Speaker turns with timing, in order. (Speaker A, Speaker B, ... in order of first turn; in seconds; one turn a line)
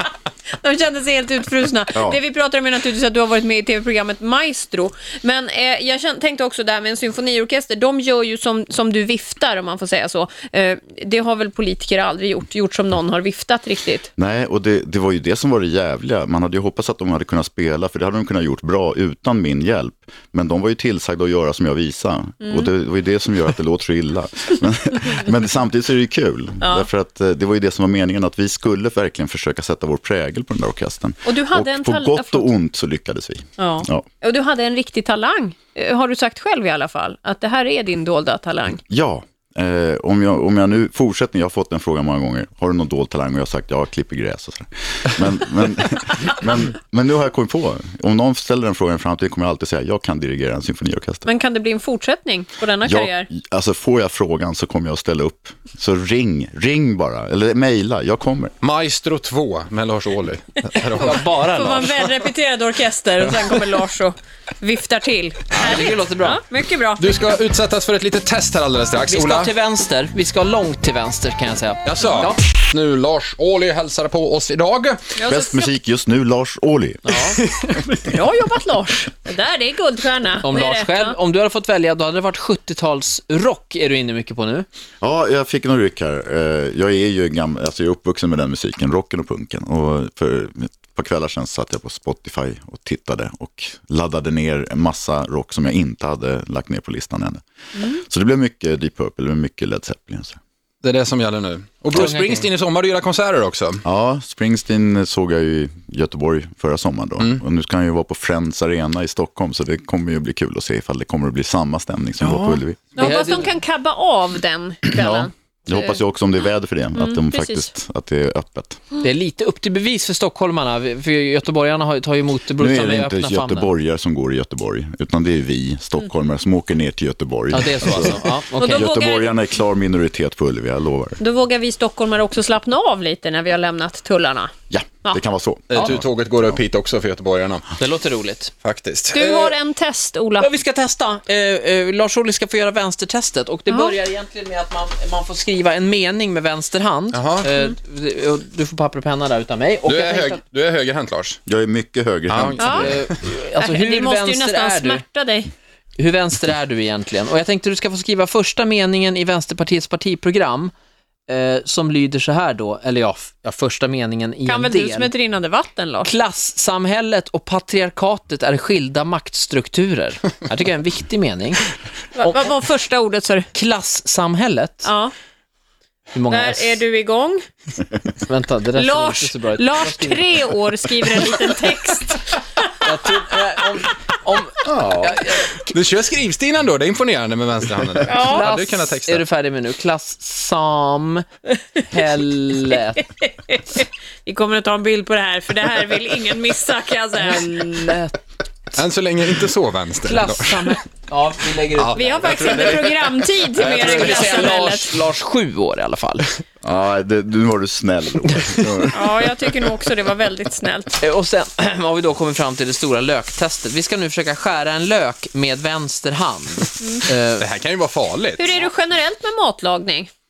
Speaker A: 0.6-14.1
Speaker B: 14.2-34.0
Speaker A: 22.4-22.7
Speaker A: 26.6-26.9
Speaker A: 31.2-32.5
Speaker A: 33.6-38.8
Speaker B: 38.9-51.3
Speaker A: 51.2-53.3
Speaker B: 52.8-58.5
Speaker C: 58.6-61.2
Speaker D: 61.1-62.3
Speaker A: 61.4-67.1
Speaker D: 65.5-66.4
Speaker C: 67.0-69.5
Speaker D: 69.0-72.4
Speaker C: 71.8-75.0
Speaker A: 75.2-75.7
Speaker B: 75.3-77.2
Speaker D: 77.0-77.4
Speaker C: 77.5-78.0
Speaker A: 78.0-81.2
Speaker D: 80.4-84.7
Speaker B: 85.0-100.4
Speaker C: 100.8-103.8
Speaker D: 102.0-102.5
Speaker B: 103.8-113.1
Speaker A: 113.0-116.0
Speaker D: 113.0-113.5
Speaker B: 114.9-118.8
Speaker A: 116.9-117.7
Speaker D: 119.0-123.7
Speaker B: 122.6-131.2
Speaker D: 127.5-128.9
Speaker A: 128.5-129.4
Speaker A: 131.2-134.5
Speaker B: 134.7-136.0
Speaker C: 135.7-137.7
Speaker D: 137.7-138.5
Speaker C: 138.6-139.5
Speaker A: 139.1-140.5
Speaker D: 140.4-150.4
Speaker A: 143.7-143.9
Speaker C: 147.1-147.5
Speaker C: 149.8-151.4
Speaker B: 151.5-153.0
Speaker C: 152.3-153.2
Speaker A: 152.6-152.9
Speaker D: 152.8-155.0
Speaker A: 153.6-155.5
Speaker D: 156.0-160.7
Speaker D: 161.3-165.1
Speaker A: 164.4-166.1
Speaker D: 166.0-171.7
Speaker A: 172.1-173.5
Speaker D: 172.2-172.6
Speaker D: 173.5-174.9
Speaker A: 174.8-175.1
Speaker D: 176.1-176.8
Speaker A: 176.3-177.4
Speaker D: 178.2-180.3
Speaker A: 178.7-182.6
Speaker D: 182.8-185.7
Speaker B: 184.6-185.2
Speaker C: 185.7-189.2
Speaker A: 188.1-188.5
Speaker D: 188.3-191.2
Speaker D: 191.8-193.1
Speaker A: 193.0-198.0
Speaker D: 197.1-198.2
Speaker C: 198.7-200.8
Speaker D: 200.0-206.4
Speaker C: 201.7-202.6
Speaker A: 201.9-205.0
Speaker B: 206.6-209.3
Speaker A: 208.9-211.0
Speaker D: 211.0-217.5
Speaker C: 217.4-218.6
Speaker A: 218.4-220.1